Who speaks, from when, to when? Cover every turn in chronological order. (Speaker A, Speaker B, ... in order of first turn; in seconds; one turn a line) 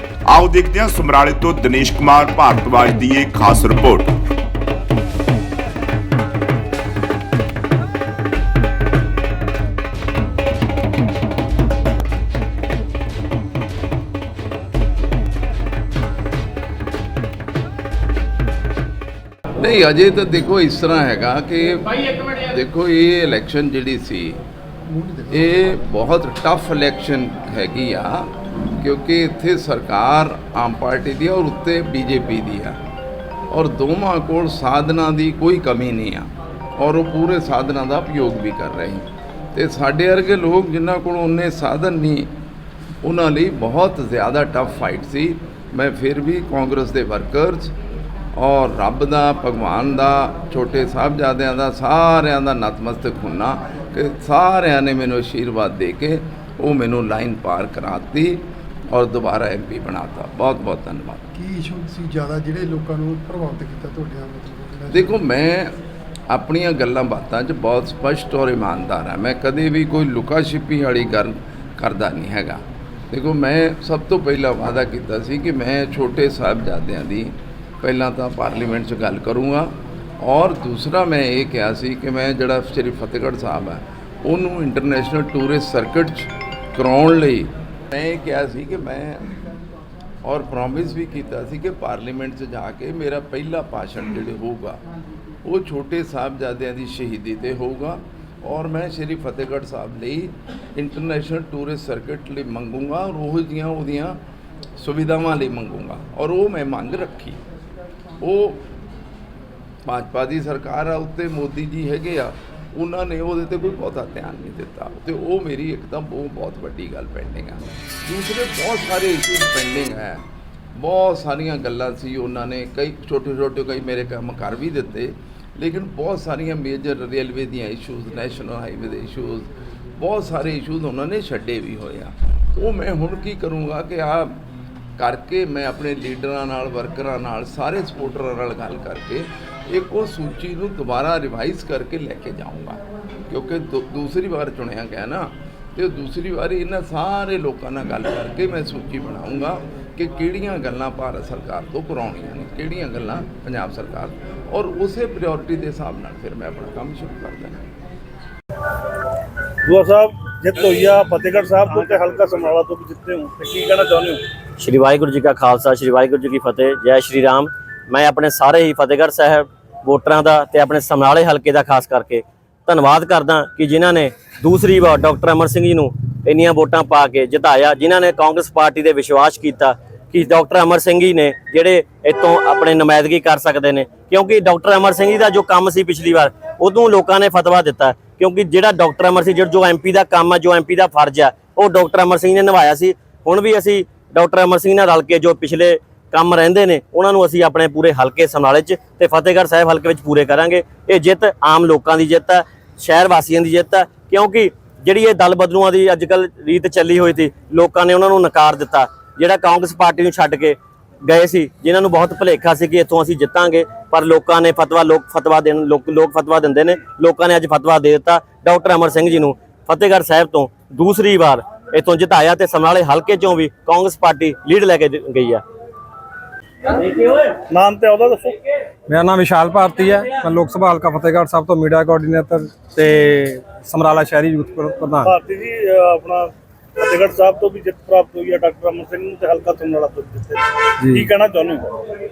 Speaker A: 0.3-4.1
Speaker B: 19.5-24.4
Speaker C: 24.9-25.8
Speaker B: 25.3-32.8
Speaker B: 33.5-42.3
Speaker B: 43.0-47.7
Speaker B: 48.4-61.3
Speaker C: 61.3-65.2
Speaker B: 64.9-65.8
Speaker B: 66.3-89.3
Speaker B: 90.2-94.8
Speaker B: 95.4-104.2
Speaker B: 104.8-107.4
Speaker B: 108.2-108.6
Speaker B: 109.8-120.2
Speaker B: 120.8-134.4
Speaker B: 135.0-157.6
Speaker D: 159.6-164.2
Speaker E: 164.6-225.4
Speaker D: 226.8-228.3
Speaker F: 228.9-235.1
Speaker D: 235.1-241.6